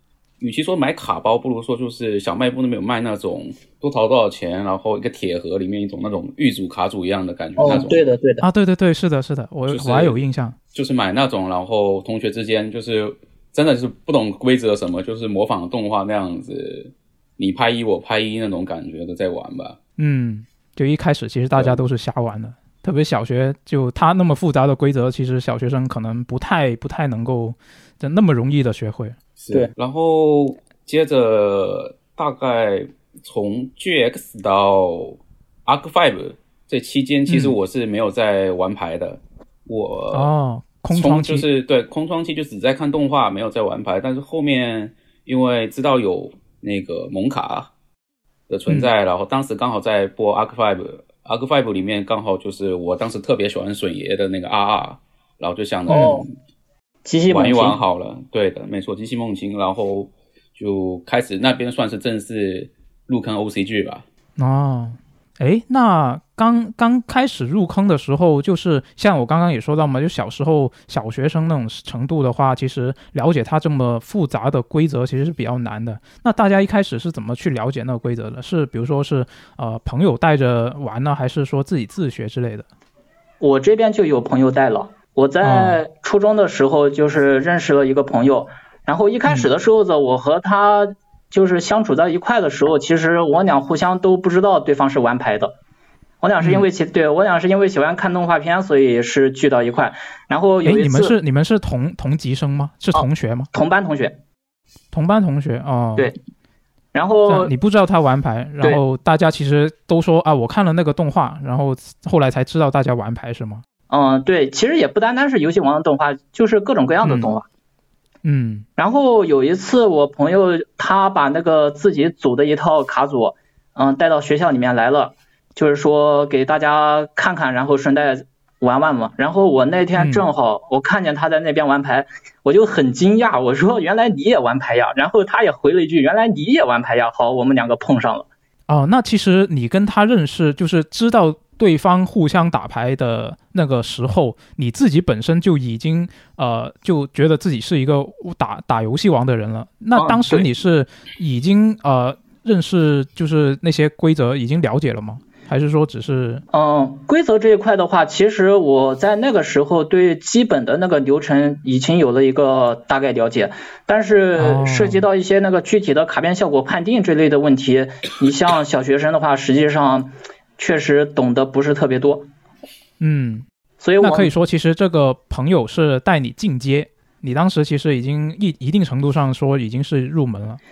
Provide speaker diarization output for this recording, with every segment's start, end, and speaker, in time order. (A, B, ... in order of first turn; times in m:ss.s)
0:00.4-0:08.0 A
0:07.6-0:08.5 B
0:08.4-0:10.6 C
0:09.7-0:10.2 A
0:10.7-0:19.8 A
0:20.0-0:29.2 C
0:21.5-0:21.8 A
0:29.4-0:40.3 A
0:37.3-0:37.6 C
0:40.1-0:41.5 C
0:40.9-0:47.7 A
0:48.5-0:56.3 A
0:55.9-0:56.2 B
0:57.0-0:57.8 B
0:57.3-1:04.0 A
1:04.4-1:22.7 C
1:23.4-1:35.6 B
1:25.4-1:25.8 C
1:36.2-1:41.2 B
1:36.4-1:36.7 C
1:40.6-1:43.5 C
1:42.9-1:44.2 B
1:44.9-1:46.1 C
1:46.9-1:47.5 B
1:47.3-1:53.6 C
1:53.9-1:57.5 B
1:57.0-1:57.3 C
1:58.2-1:58.7 C
1:58.8-2:18.3 B
2:10.0-2:10.2 C
2:18.7-2:36.4 C
2:30.0-2:30.5 B
2:36.5-2:52.3 B
2:44.4-2:45.0 C
2:53.0-2:53.5 C
2:53.8-2:54.3 B
2:54.0-3:00.6 C